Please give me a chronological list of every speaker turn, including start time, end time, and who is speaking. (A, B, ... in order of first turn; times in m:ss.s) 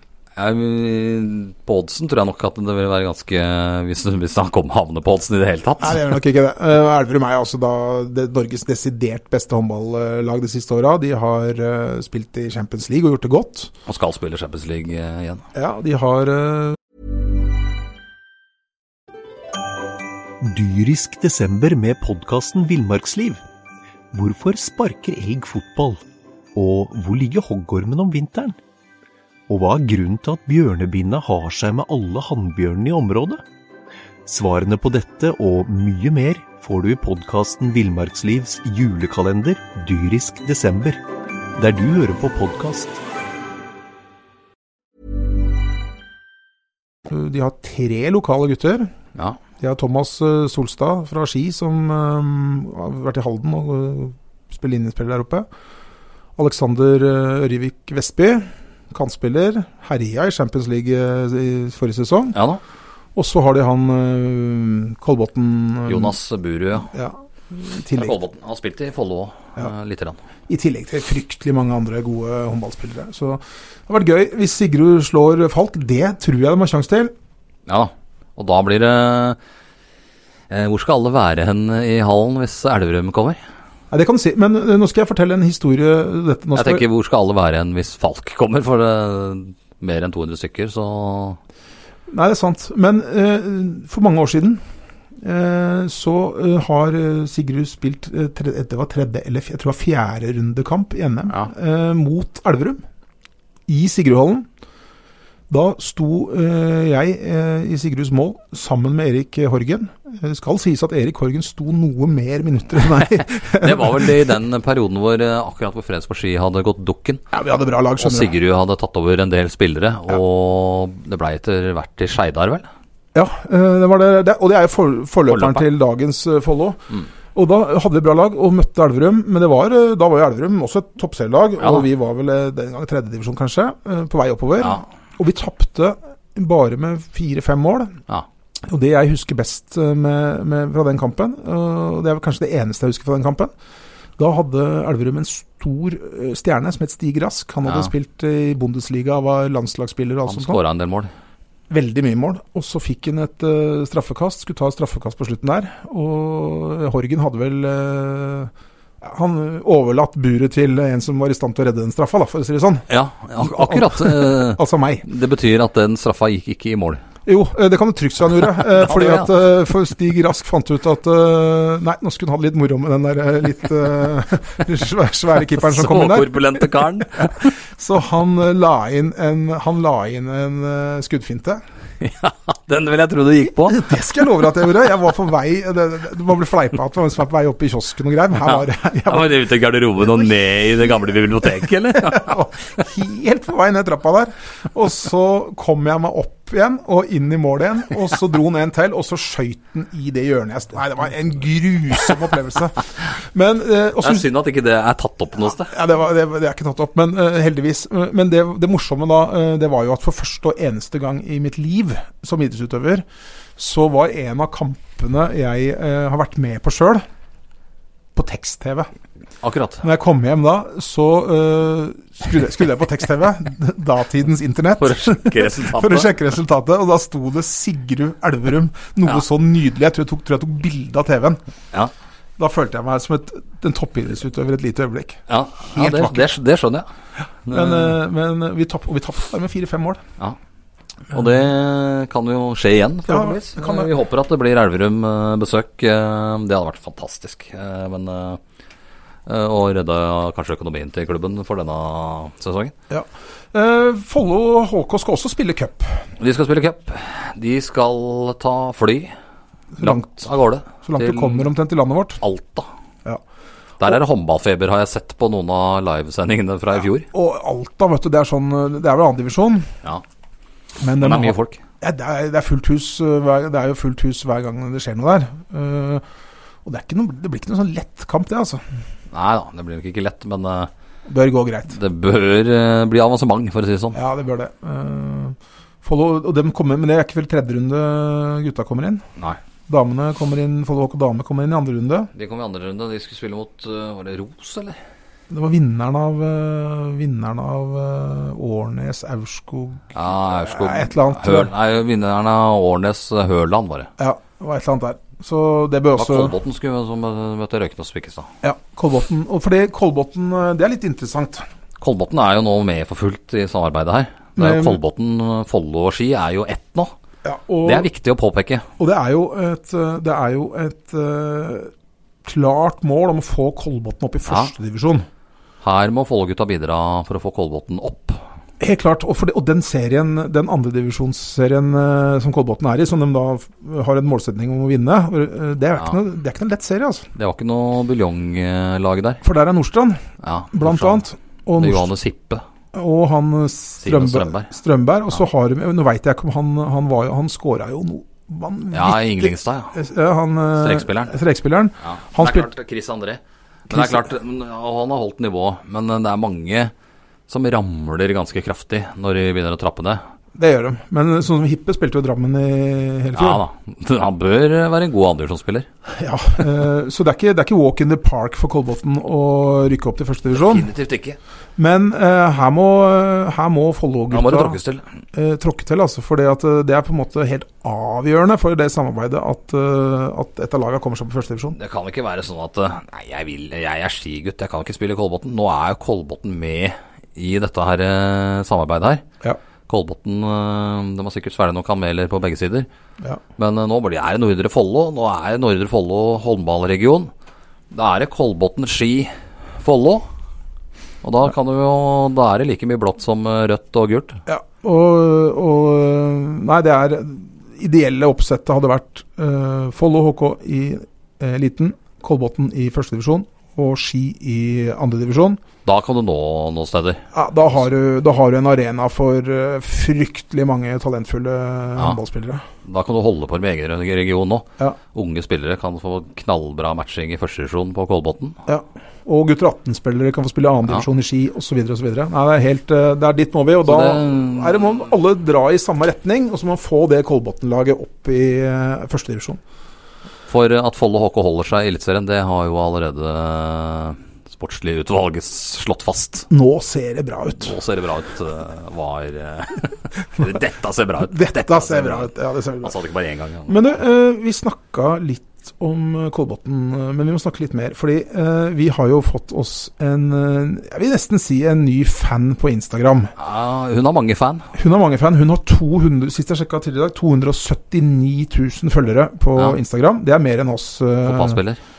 0:00.4-0:06.1 A
0:05.8-0:13.7 B
0:13.9-0:15.4 A
0:15.6-0:16.8 B
0:20.4-0:23.4 C
0:24.1-0:26.0 C
0:26.6-0:28.6 C
0:29.5-0:33.4 C
0:34.3-0:41.0 C
0:41.6-0:43.0 C
0:47.1-0:48.9 B
0:49.6-0:55.5 B
0:56.4-1:02.4 B
1:02.3-1:02.6 A
1:03.2-1:06.2 B
1:05.9-1:06.9 A
1:06.9-1:08.2 B
1:08.0-1:10.2 A
1:10.5-1:17.1 B
1:17.7-1:19.4 A
1:20.5-1:23.4 A
1:23.9-1:26.8 B
1:26.6-1:31.4 A
1:32.1-1:34.6 B
1:35.2-1:42.8 B
1:43.7-1:44.5 B
1:45.5-1:54.3 B
1:53.1-1:57.2 A
1:57.3-1:58.3 B
1:58.0-2:02.7 A
2:03.1-2:06.8 B
2:05.3-2:05.6 A
2:07.3-2:18.0 B
2:11.6-2:11.8 A
2:18.7-2:23.5 B
2:24.2-2:30.6 B
2:30.3-2:31.1 A
2:31.7-2:42.9 B
2:42.9-2:47.0 A
2:43.4-2:45.0 B
2:47.3-2:56.7 B
2:48.6-2:49.3 A
2:55.6-2:57.5 A
2:57.8-3:01.6 B
3:02.0-3:03.9 A
3:03.6-3:09.3 B
3:08.5-3:12.4 A
3:11.9-3:24.3 B
3:24.0-3:25.7 A
3:25.4-3:33.0 B
3:33.6-3:37.0 B
3:38.2-3:38.9 B
3:39.4-3:39.8 A
3:39.8-3:51.4 B
3:44.8-3:46.1 A
3:52.4-3:56.3 B
3:55.3-3:56.9 A
3:57.5-3:57.9 A
3:57.5-4:00.0 B
4:01.1-4:08.4 A
4:03.1-4:03.9 B
4:09.3-4:12.7 A
4:12.9-4:16.0 B
4:16.2-4:19.1 A
4:19.8-4:22.2 B
4:19.8-4:21.5 A
4:22.2-4:22.7 A
4:23.8-4:27.1 A
4:27.1-4:29.7 B
4:30.8-4:36.0 B
4:31.0-4:31.6 A
4:36.6-4:38.6 B
4:39.1-4:40.7 A
4:41.1-4:41.8 B
4:41.7-4:44.0 A
4:43.9-4:49.0 B
4:49.7-4:52.1 B
4:52.2-4:54.8 A
4:55.3-5:01.5 B
4:59.9-5:03.9 A
5:04.0-5:06.4 B
5:06.0-5:08.3 A
5:08.4-5:11.4 B
5:11.8-5:16.9 A
5:14.4-5:14.8 B
5:17.2-5:17.9 B
5:17.6-5:18.7 A
5:18.8-5:21.7 B
5:22.2-5:25.1 B
5:24.3-5:24.5 A
5:25.6-5:28.2 A
5:28.6-5:37.1 B
5:37.2-5:39.2 A
5:39.2-5:41.9 B
5:40.2-5:41.0 A
5:41.6-5:42.4 A
5:42.7-5:52.5 B
5:43.8-5:44.5 A
5:48.7-5:49.8 A
5:50.6-5:51.2 A
5:51.8-5:56.7 A
5:53.7-5:54.1 B
5:57.3-6:00.0 A
6:00.4-6:03.4 B
6:03.1-6:05.7 A
6:05.9-6:10.7 B
6:10.3-6:11.2 A
6:11.6-6:14.6 B
6:14.1-6:14.8 A
6:15.1-6:21.6 B
6:21.6-6:29.0 A
6:29.7-6:32.7 A
6:33.4-6:37.1 A
6:37.7-6:40.1 A
6:41.0-6:44.2 A
6:44.3-6:55.4 B
6:55.6-6:57.0 A
6:57.1-7:02.4 B
7:02.6-7:08.4 A
7:08.5-7:19.4 B
7:13.6-7:14.6 A
7:20.3-7:26.3 A
7:26.3-7:27.6 B
7:27.4-7:33.6 A
7:31.1-7:32.8 B
7:33.5-7:43.1 B
7:43.2-7:44.5 A
7:44.6-7:51.4 B
7:51.0-7:51.6 A